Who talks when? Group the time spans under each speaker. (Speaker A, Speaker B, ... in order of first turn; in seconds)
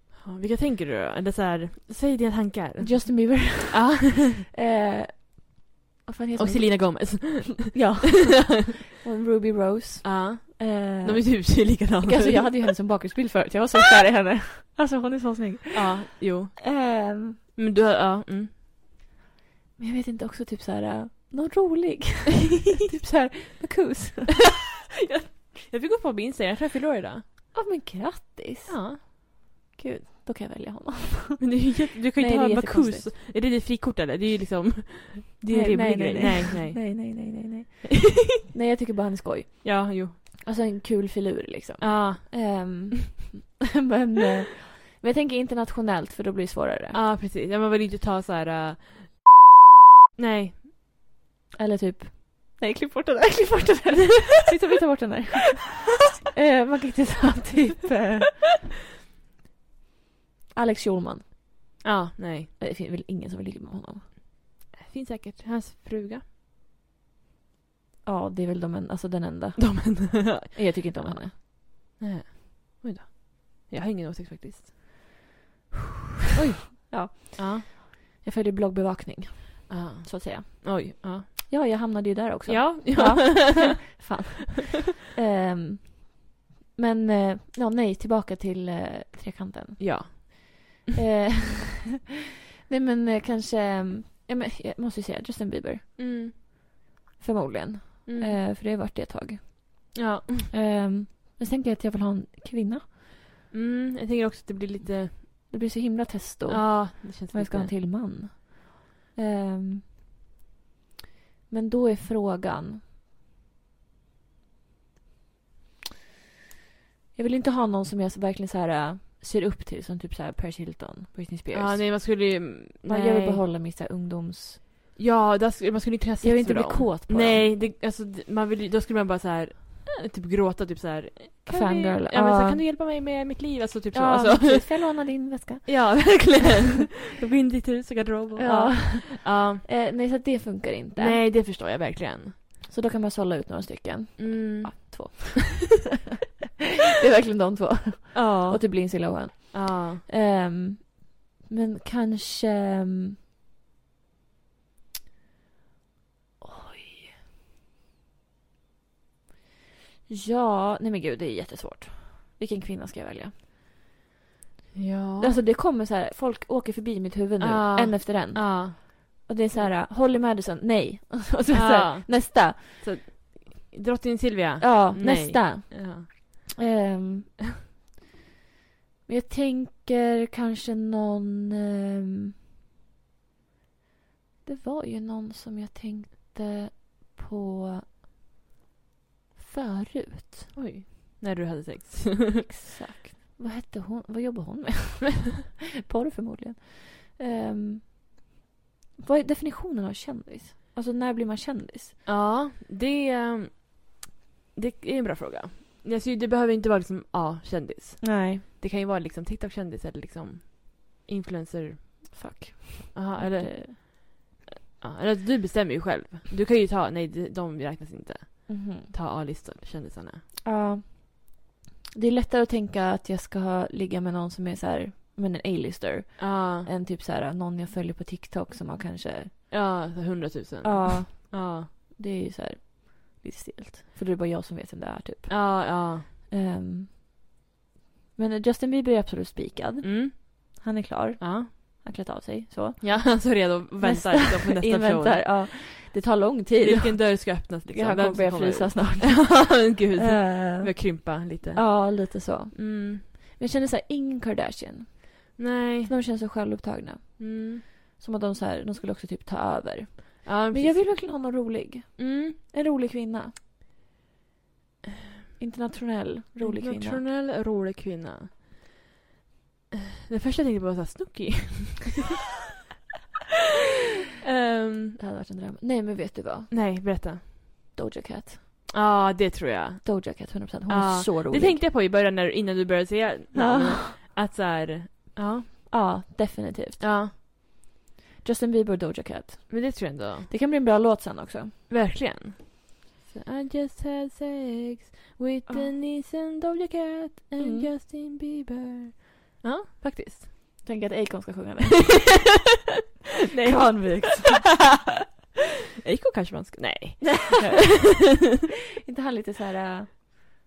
Speaker A: 0.1-4.4, 6.3-8.1, 10.0-12.8, 15.7-16.8, 17.5-18.5, 25.1-27.2, 28.7-29.0, 31.4-37.4, 39.6-40.2, 41.8-42.9, 46.9-49.4, 50.1-50.6, 61.8-62.5, 64.7-66.2, 69.6-75.0, 76.7-77.6, 79.7-81.5, 82.5-83.8, 89.8-90.7, 96.0-96.3, 98.0-98.4, 99.9-100.5, 103.5-105.5, 106.5-107.7, 121.5-123.4, 125.0-134.8, 135.6-139.7, 141.0-142.4, 144.2-145.2, 148.1-150.0, 164.7-165.4, 167.4-168.8, 171.5-176.4, 190.5-192.4, 202.0-212.2, 212.9-214.3, 214.8-220.2, 226.2-226.7, 229.5-231.7, 235.3-236.1, 239.8-240.2, 241.2-241.5, 242.8-245.5, 246.6-253.0, 255.4-255.9, 257.2-257.6, 260.2-261.1, 262.0-262.4, 266.4-268.5, 269.7-272.1, 274.2-275.0, 276.5-277.3, 278.7-285.5, 286.8-287.1, 289.5-290.3, 291.7-300.3, 303.3-304.3, 305.8-308.2
Speaker B: 2.8-17.4, 19.8-24.6, 27.5-33.0, 35.5-47.0, 51.6-58.4, 60.5-61.8, 62.6-64.0, 68.0-71.3, 76.3-86.2, 86.8-91.9, 92.7-96.0, 97.2-99.9, 100.5-102.8, 105.5-109.8, 111.5-112.8, 117.1-122.3, 122.8-124.6, 126.2-127.5, 131.5-132.6, 133.9-136.4, 138.3-141.2, 142.7-145.9, 146.9-153.2, 156.4-157.1, 160.1-163.3, 165.2-172.8, 174.6-177.4, 179.1-182.3, 184.4-187.8, 189.3-190.5, 192.4-197.9, 199.0-201.9, 208.0-208.4, 212.1-213.8, 218.5-218.9, 220.4-229.5, 230.6-237.1, 238.2-263.3, 265.4-267.0, 275.0-276.5, 277.7-278.4, 279.8-281.6, 283.3-283.9, 285.7-286.8, 288.2-291.5, 297.4-297.7, 300.6-302.1, 303.4-304.6, 307.0-307.3, 308.9-309.9